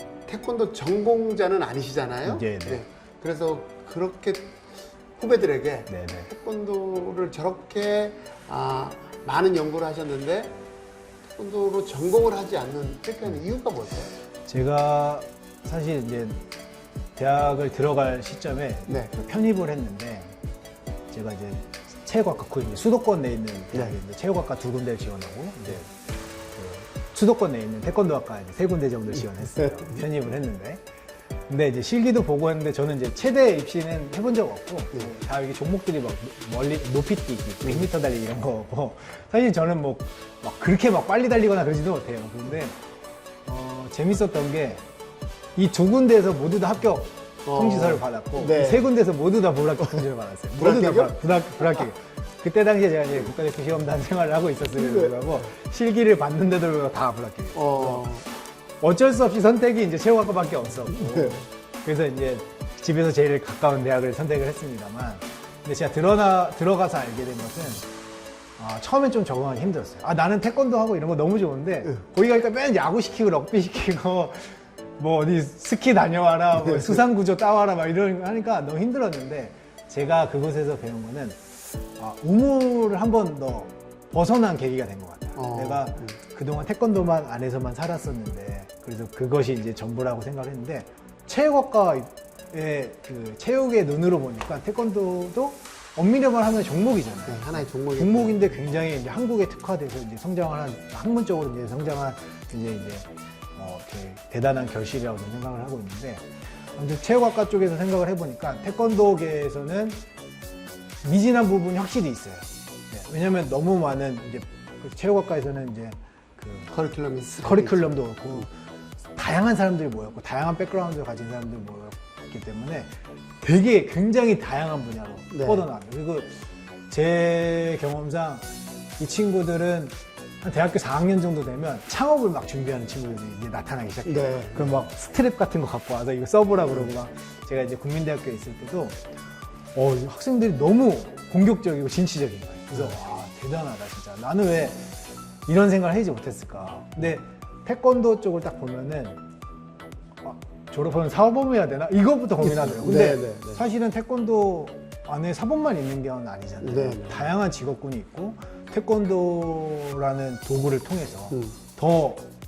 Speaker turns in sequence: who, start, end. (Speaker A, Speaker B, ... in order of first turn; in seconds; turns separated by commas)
Speaker A: 0.3-10.6, Speaker B: 2.2-2.8, Speaker B: 5.9-6.3, Speaker A: 11.4-14.1, Speaker B: 14.4-16.4, Speaker B: 17.1-20.3, Speaker A: 18.9-19.1, Speaker B: 21.1-25.9, Speaker B: 26.5-30.8, Speaker A: 29.4-29.9, Speaker B: 31.5-42.8, Speaker B: 43.4-44.9, Speaker B: 45.5-58.1, Speaker A: 47.4-48.9, Speaker A: 50.5-51.9, Speaker A: 54.7-55.4, Speaker A: 57.5-58.3, Speaker B: 58.8-67.9, Speaker A: 60.9-61.4, Speaker B: 68.6-110.0, Speaker A: 76.6-77.0, Speaker A: 85.3-86.2, Speaker A: 97.2-98.6, Speaker B: 111.0-116.7, Speaker A: 116.7-118.4, Speaker B: 117.4-118.5, Speaker B: 119.1-139.0, Speaker A: 125.3-125.6, Speaker A: 134.0-134.8, Speaker B: 139.7-144.9, Speaker B: 145.4-149.2, Speaker B: 150.2-162.3, Speaker A: 152.4-153.6, Speaker A: 156.6-157.3, Speaker A: 161.3-161.6